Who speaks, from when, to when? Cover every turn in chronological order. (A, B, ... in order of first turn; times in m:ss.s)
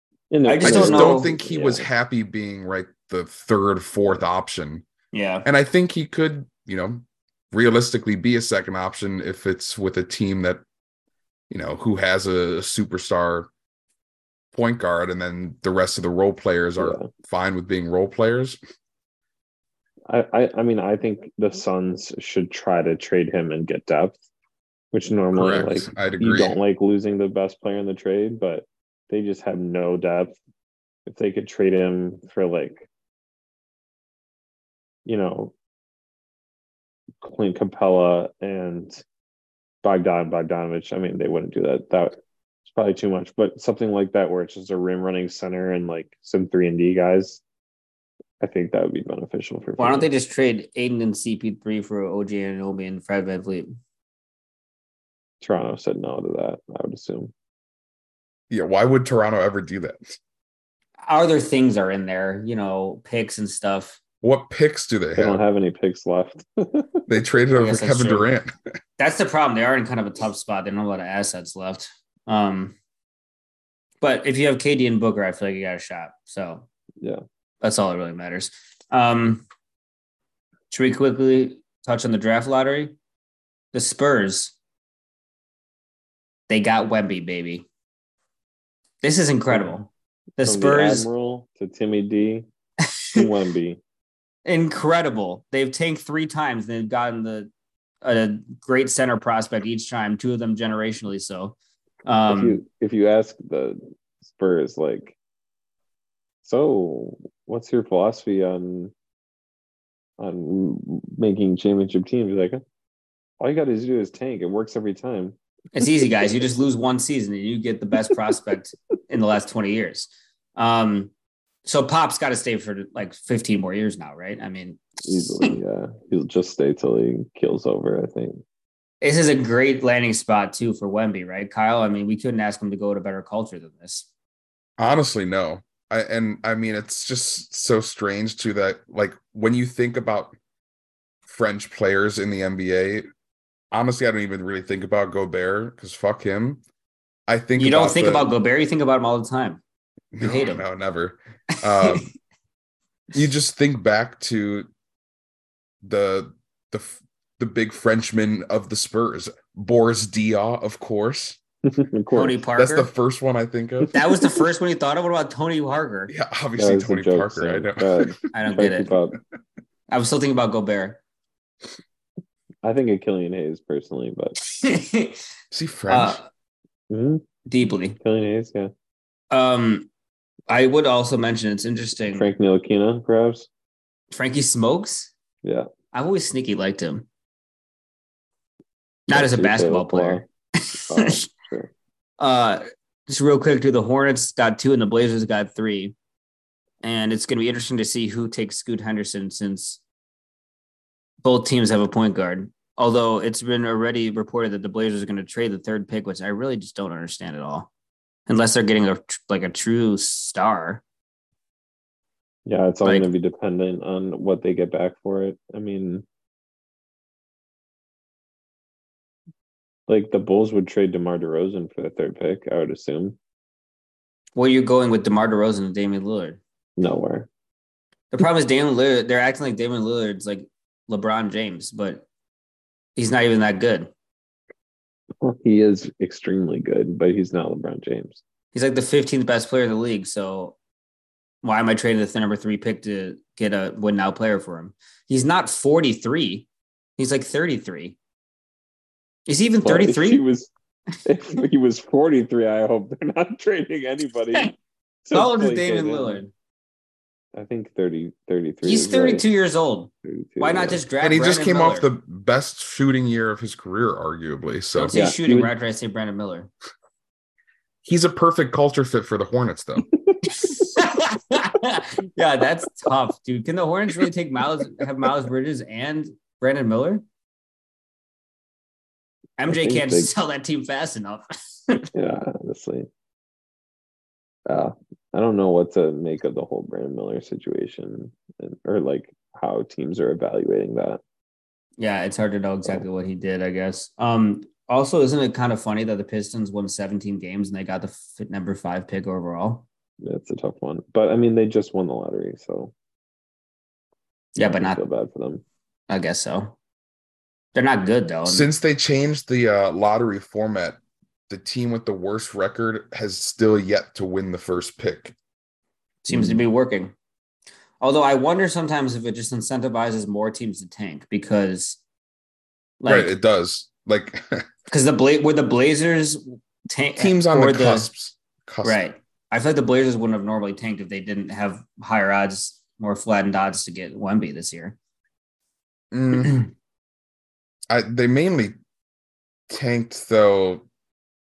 0:00.3-0:01.9 A
0:00.4-0:01.3 B
0:00.6-0:04.8 C
0:05.1-0:05.5 B
0:05.4-0:10.6 C
0:11.5-0:13.5 C
0:14.5-0:18.6 C
0:16.8-0:17.1 A
0:20.1-0:24.1 A
0:24.9-0:30.4 A
0:25.3-0:26.6 C
0:31.0-0:32.8 A
0:35.0-0:35.5 A
0:37.2-0:39.0 A
0:39.8-0:47.4 A
0:48.4-0:50.1 A
0:49.8-0:53.7 B
0:55.4-0:57.3 A
0:58.5-1:00.2 C
1:01.1-1:04.0 B
1:04.2-1:05.4 C
1:05.2-1:07.0 A
1:07.1-1:08.5 C
1:07.5-1:08.3 B
1:09.0-1:12.8 B
1:14.0-1:16.6 B
1:17.6-1:19.4 B
1:20.7-1:23.0 B
1:23.7-1:24.5 B
1:26.5-1:27.7 B
1:29.0-1:31.1 B
1:30.4-1:32.4 A
1:32.8-1:33.2 B
1:33.1-1:33.8 A
1:34.4-1:37.5 B
1:38.0-1:42.6 B
1:42.3-1:45.2 A
1:46.4-1:48.9 A
1:50.2-1:52.6 A
1:53.4-1:55.3 A
1:55.7-2:01.1 B
2:01.6-2:05.5 B
2:05.0-2:08.4 A
2:09.0-2:14.1 B
2:14.8-2:20.3 C
2:21.3-2:23.1 C
2:23.7-2:26.6 C
2:27.3-2:28.3 C
2:27.6-2:29.6 B
2:30.1-2:32.1 C
2:30.2-2:30.6 B
2:31.8-2:32.1 B
2:33.1-2:34.7 C
2:35.8-2:41.4 C
2:41.7-2:42.4 A
2:42.1-2:42.9 B
2:42.6-2:43.9 C
2:43.9-2:46.1 B
2:46.1-2:48.1 C
2:46.6-2:49.2 A
2:48.3-2:48.9 B
2:49.9-2:51.0 B
2:52.6-2:54.4 A
2:54.5-2:55.2 B
2:55.5-2:56.2 C
2:55.9-2:56.3 B
2:56.9-2:57.2 A
2:57.5-2:58.0 B
2:58.0-2:58.7 A
2:59.3-2:59.9 B
3:00.5-3:02.3 B
3:02.1-3:03.5 A
3:04.1-3:05.1 B
3:05.9-3:07.0 B
3:09.1-3:11.2 B
3:09.1-3:10.3 A
3:10.9-3:11.7 A
3:12.2-3:15.9 B
3:16.8-3:19.8 B
3:21.2-3:27.7 B
3:28.3-3:30.8 B
3:32.4-3:36.0 A
3:39.9-3:43.2 A
3:44.4-3:46.4 B
3:46.8-3:47.3 A
3:48.1-3:52.0 B
3:53.0-3:53.9 B
3:55.2-3:58.2 A
3:58.5-4:00.6 B
4:01.4-4:06.4 B
4:07.0-4:08.0 B
4:09.3-4:10.2 B
4:09.6-4:10.5 A
4:11.0-4:16.2 A
4:15.1-4:16.3 B
4:17.3-4:19.3 A
4:18.6-4:21.9 B
4:20.0-4:20.8 A
4:21.0-4:25.0 C
4:24.7-4:26.5 B
4:24.9-4:25.5 A
4:27.8-4:29.9 C
4:30.4-4:37.0 B
4:39.4-4:41.9 B
4:39.5-4:40.1 A
4:41.9-4:42.9 A
4:44.5-4:51.0 A
4:51.8-4:59.6 B
5:00.0-5:02.7 A
5:04.4-5:04.8 B
5:04.5-5:05.4 A
5:05.9-5:06.5 B
5:07.5-5:08.5 B
5:08.2-5:10.8 C
5:11.3-5:15.1 C
5:16.0-5:16.9 B
5:16.1-5:16.4 A
5:17.8-5:21.8 B
5:22.8-5:23.1 B
5:22.9-5:24.5 C
5:24.7-5:27.9 B
5:27.0-5:28.8 C
5:28.6-5:34.8 B
5:35.9-5:36.4 C
5:37.7-5:38.5 C
5:39.5-5:40.6 C